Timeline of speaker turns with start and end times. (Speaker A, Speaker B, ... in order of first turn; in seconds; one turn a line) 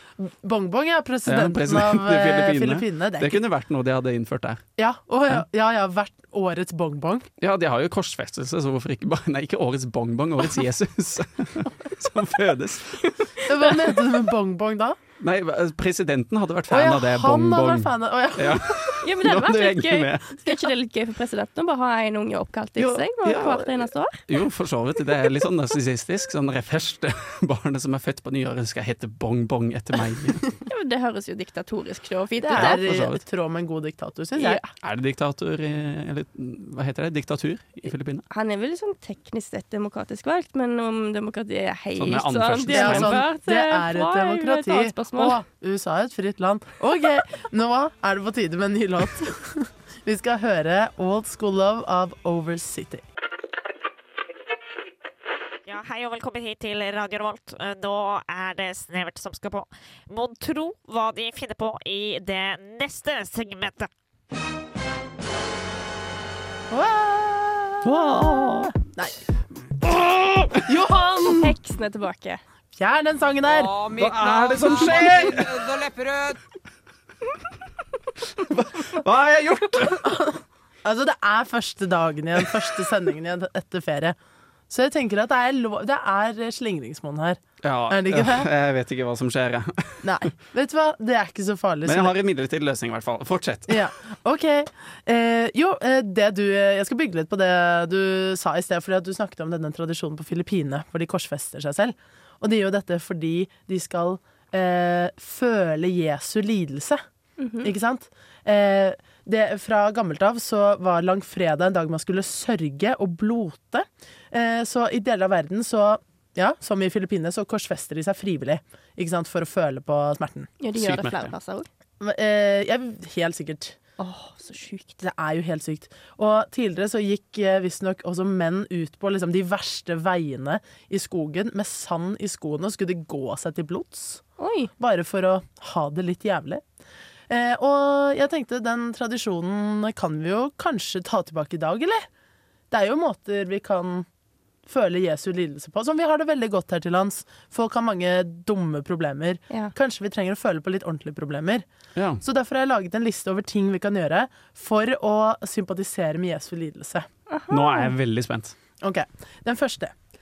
Speaker A: 0.2-3.4
Speaker B: 1.3-4.6
Speaker A: 4.8-7.3
Speaker B: 7.4-13.2
Speaker A: 13.4-15.0
Speaker B: 15.2-20.4
Speaker A: 16.7-18.9
Speaker C: 19.0-24.2
Speaker B: 22.8-30.4
Speaker C: 30.7-32.8
Speaker A: 32.4-34.6
Speaker B: 32.5-33.2
Speaker C: 34.4-34.6
Speaker B: 34.8-38.2
Speaker C: 38.3-45.4
Speaker B: 42.0-43.2
Speaker A: 42.7-53.0
Speaker D: 55.7-63.9
Speaker A: 66.7-68.1
Speaker B: 67.8-68.8
Speaker A: 68.9-69.2
Speaker B: 69.8-70.6
Speaker A: 70.6-71.5
Speaker C: 71.4-72.4
Speaker A: 72.8-73.9
Speaker B: 73.9-75.8
Speaker B: 78.2-80.1
Speaker A: 80.1-84.2
Speaker A: 84.7-88.5
Speaker B: 87.6-90.2
Speaker A: 90.0-92.1
Speaker B: 91.8-93.9
Speaker A: 93.7-107.0
Speaker C: 107.4-107.7
Speaker A: 107.6-120.5
Speaker C: 120.6-121.7
Speaker B: 120.7-121.3
Speaker A: 122.0-123.8
Speaker C: 124.0-125.0
Speaker A: 125.0-134.2
Speaker C: 134.4-134.7
Speaker A: 134.8-136.6
Speaker A: 137.3-142.1
Speaker A: 142.7-144.1
Speaker A: 144.7-151.7
Speaker B: 151.9-152.2
Speaker A: 152.2-157.1
Speaker C: 157.3-157.9
Speaker B: 157.5-158.6
Speaker A: 158.8-159.9